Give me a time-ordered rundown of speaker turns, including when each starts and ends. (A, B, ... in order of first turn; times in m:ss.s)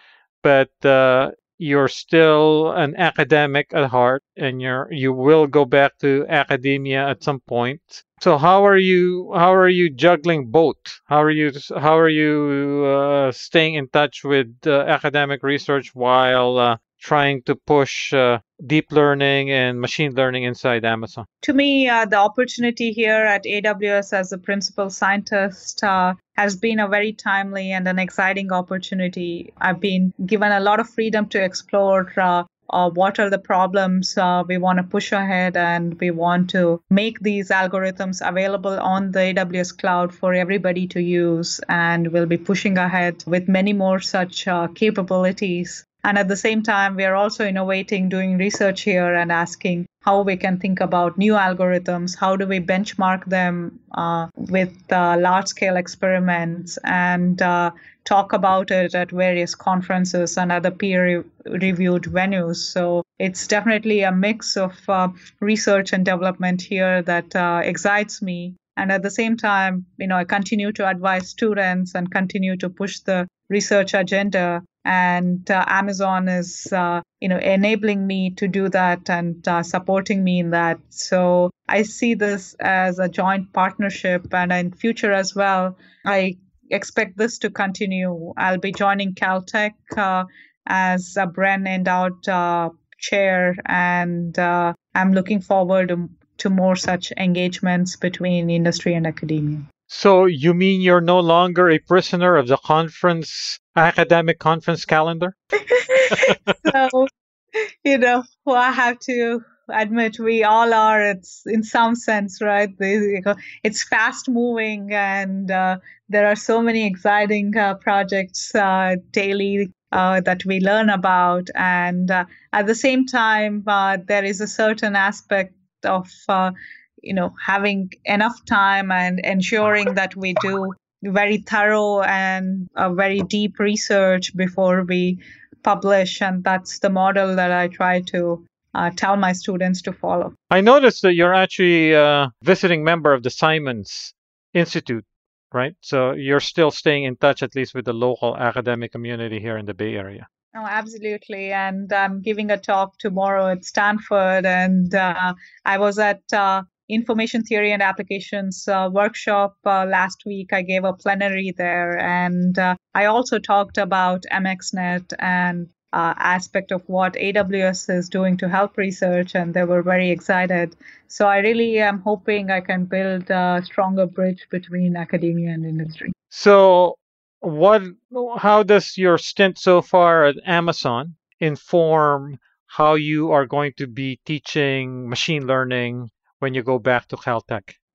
0:00.4-0:21.2 A
0:21.4-1:39.6 B
1:39.9-1:45.3 A
1:45.6-1:47.1 B
1:46.1-1:46.5 A
1:47.8-2:20.3 B
2:20.5-2:30.2 A
2:30.5-2:56.1 B
2:56.3-3:07.8 A